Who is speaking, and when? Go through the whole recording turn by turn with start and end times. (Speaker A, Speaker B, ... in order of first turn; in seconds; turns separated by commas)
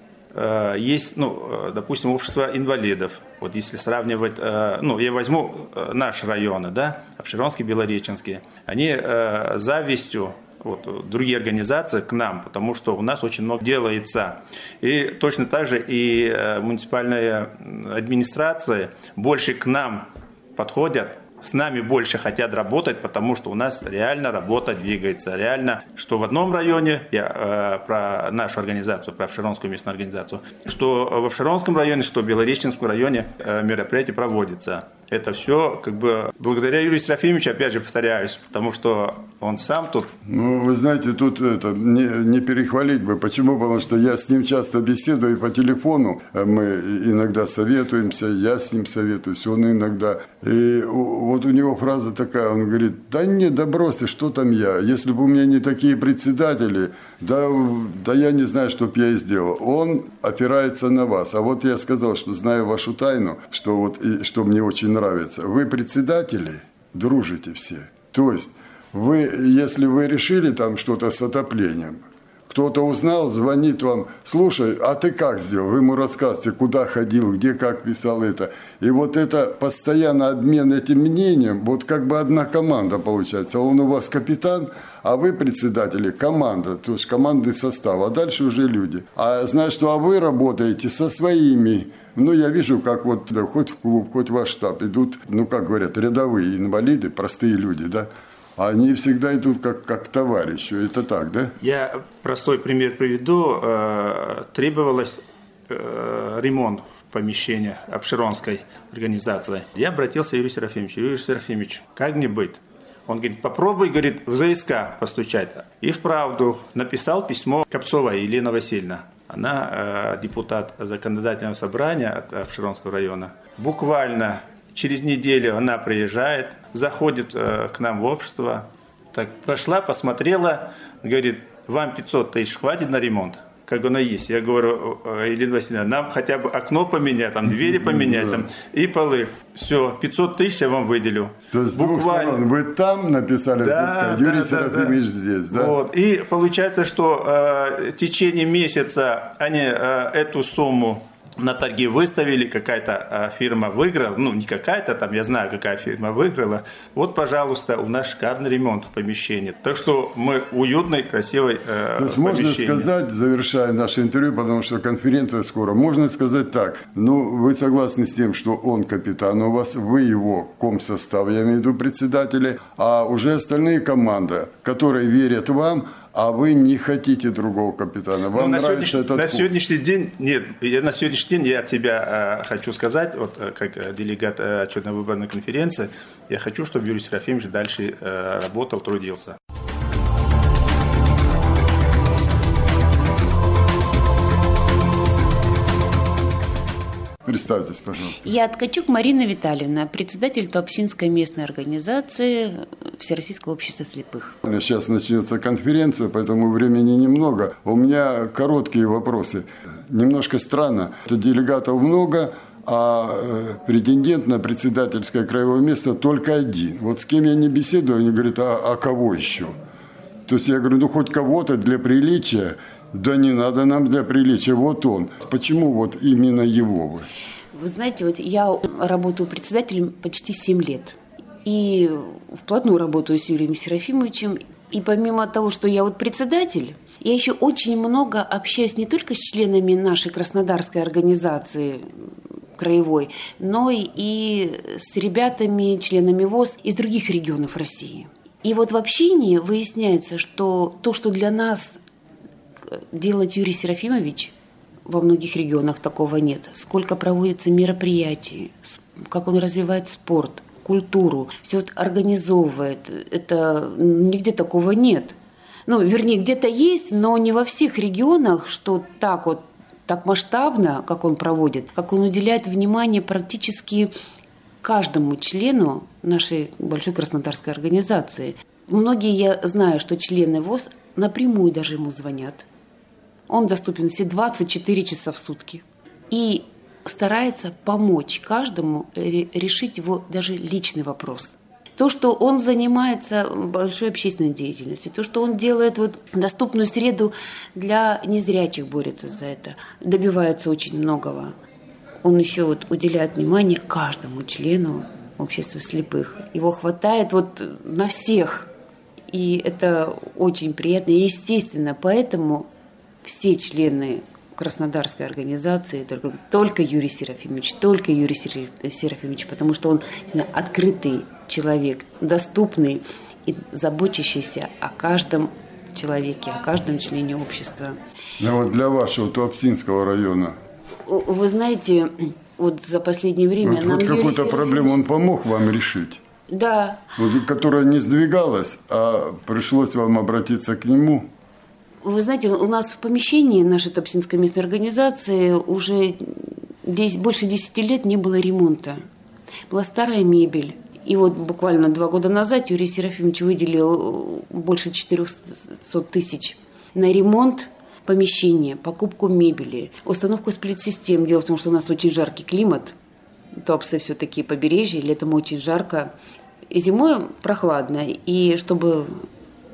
Speaker A: 0.3-40.1, Speaker B: 40.2-101.5, Speaker A: 101.6-142.4, Speaker B: 137.5-138.5, Speaker B: 141.5-145.8, Speaker A: 143.6-145.0, Speaker A: 145.5-162.9, Speaker B: 162.0-179.5, Speaker A: 178.3-189.4, Speaker B: 197.2-198.3, Speaker C: 198.2-204.4, Speaker B: 204.4-219.5, Speaker B: 220.3-227.1, Speaker C: 227.5-241.9, Speaker C: 242.6-251.8, Speaker C: 252.7-254.3, Speaker C: 254.9-265.1, Speaker C: 265.7-273.9, Speaker C: 274.6-282.5, Speaker C: 283.3-301.3, Speaker C: 302.0-308.5, Speaker C: 309.1-312.5, Speaker C: 313.0-327.8, Speaker B: 328.2-330.4, Speaker C: 330.9-334.8, Speaker B: 333.4-336.0, Speaker C: 336.3-336.9, Speaker B: 337.0-341.1, Speaker C: 341.8-348.8, Speaker C: 349.5-362.8, Speaker C: 363.3-365.9, Speaker C: 366.5-369.1